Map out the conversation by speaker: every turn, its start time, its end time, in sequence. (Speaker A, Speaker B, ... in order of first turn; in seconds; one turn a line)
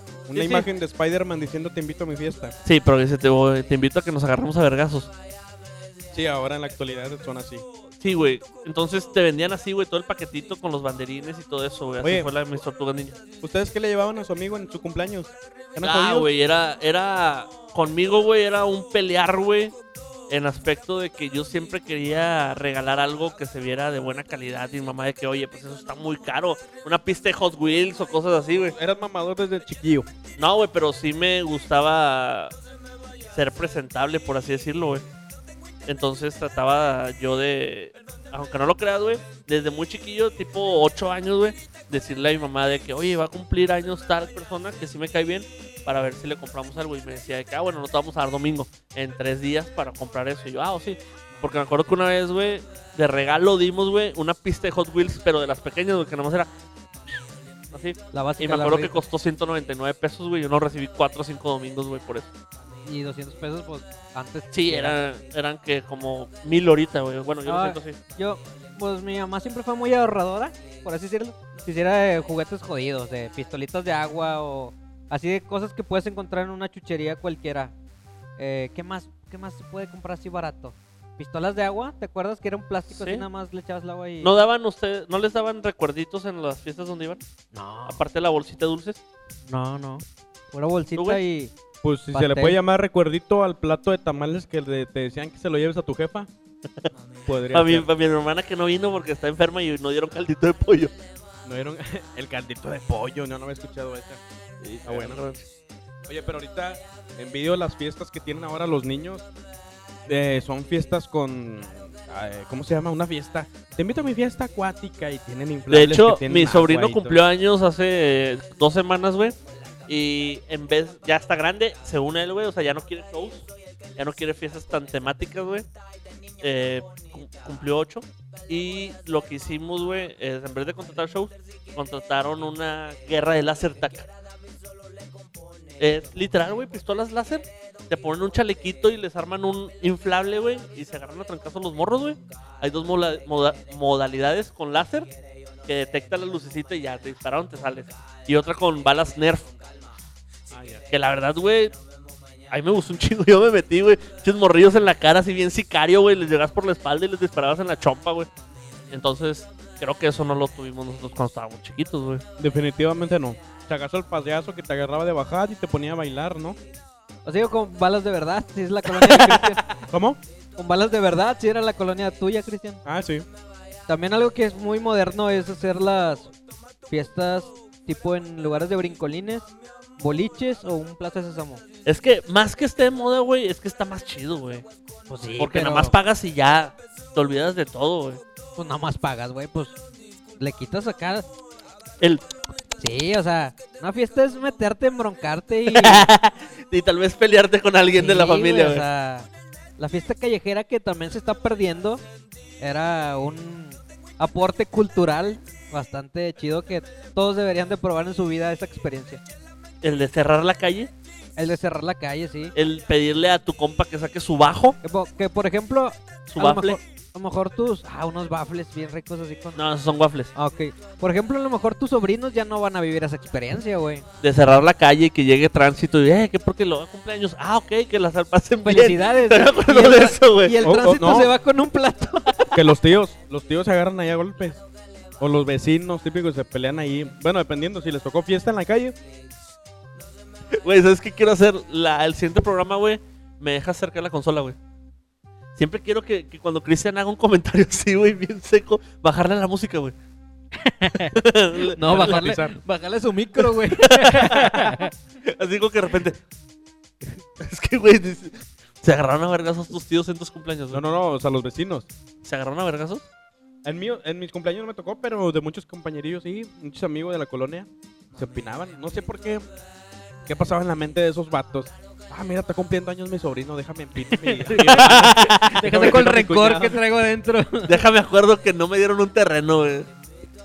Speaker A: 0.3-2.5
Speaker B: 0.3-0.7
Speaker B: 2.6-5.1
Speaker A: 6.1-7.7
Speaker B: 8.0-13.2
Speaker A: 12.0-12.3
Speaker A: 13.4-16.3
Speaker B: 15.8-19.8
Speaker B: 20.3-28.8
Speaker A: 28.7-30.1
Speaker B: 30.4-32.5
Speaker B: 33.3-35.0
Speaker B: 35.9-56.5
Speaker B: 57.7-62.3
Speaker C: 58.1-59.0
Speaker C: 62.8-65.0
Speaker B: 64.5-68.0
Speaker C: 67.5-77.7
Speaker C: 78.4-84.3
Speaker B: 82.9-83.2
Speaker B: 84.2-87.2
Speaker C: 87.5-88.0
Speaker B: 87.9-89.0
Speaker C: 89.5-91.5
Speaker B: 91.0-91.2
Speaker A: 91.8-96.3
Speaker C: 92.1-92.6
Speaker A: 97.3-97.9
Speaker B: 97.5-100.9
Speaker A: 101.5-104.2
Speaker B: 104.6-105.4
Speaker A: 104.8-105.2
Speaker A: 106.1-109.3
Speaker A: 110.1-117.2
Speaker B: 115.7-119.4
Speaker B: 119.9-125.7
Speaker B: 126.4-134.1
Speaker B: 135.8-145.1
Speaker B: 145.7-149.5
Speaker B: 150.5-151.8
Speaker B: 152.5-158.3
Speaker B: 158.9-162.2
Speaker A: 162.4-166.6
Speaker C: 167.2-169.8
Speaker B: 168.9-169.6
Speaker A: 169.9-170.2
Speaker C: 170.6-172.8
Speaker A: 172.8-173.3
Speaker C: 173.9-176.3
Speaker C: 176.9-181.6
Speaker B: 181.9-184.7
Speaker C: 185.1-185.9
Speaker B: 185.4-188.2
Speaker C: 188.6-189.8
Speaker C: 190.4-191.3
Speaker C: 192.8-196.1
Speaker B: 195.7-198.8
Speaker C: 197.9-202.0
Speaker C: 202.6-209.2
Speaker B: 209.8-210.9
Speaker C: 211.4-212.5
Speaker B: 212.6-214.8
Speaker C: 214.8-219.6
Speaker B: 216.3-216.8
Speaker B: 219.6-220.3
Speaker C: 220.3-224.1
Speaker B: 224.2-230.7
Speaker C: 228.7-232.5
Speaker A: 230.6-231.3
Speaker A: 232.5-234.6
Speaker A: 235.2-239.0
Speaker B: 240.6-244.6
Speaker B: 245.6-249.9
Speaker C: 250.6-251.2
Speaker B: 251.2-252.2
Speaker C: 251.7-254.9
Speaker A: 251.9-252.6
Speaker B: 253.7-256.2
Speaker B: 257.4-260.8
Speaker A: 260.7-261.9
Speaker B: 262.2-263.1
Speaker A: 263.6-269.5
Speaker A: 270.3-276.8
Speaker C: 274.1-277.8
Speaker B: 274.5-275.9
Speaker B: 277.7-279.9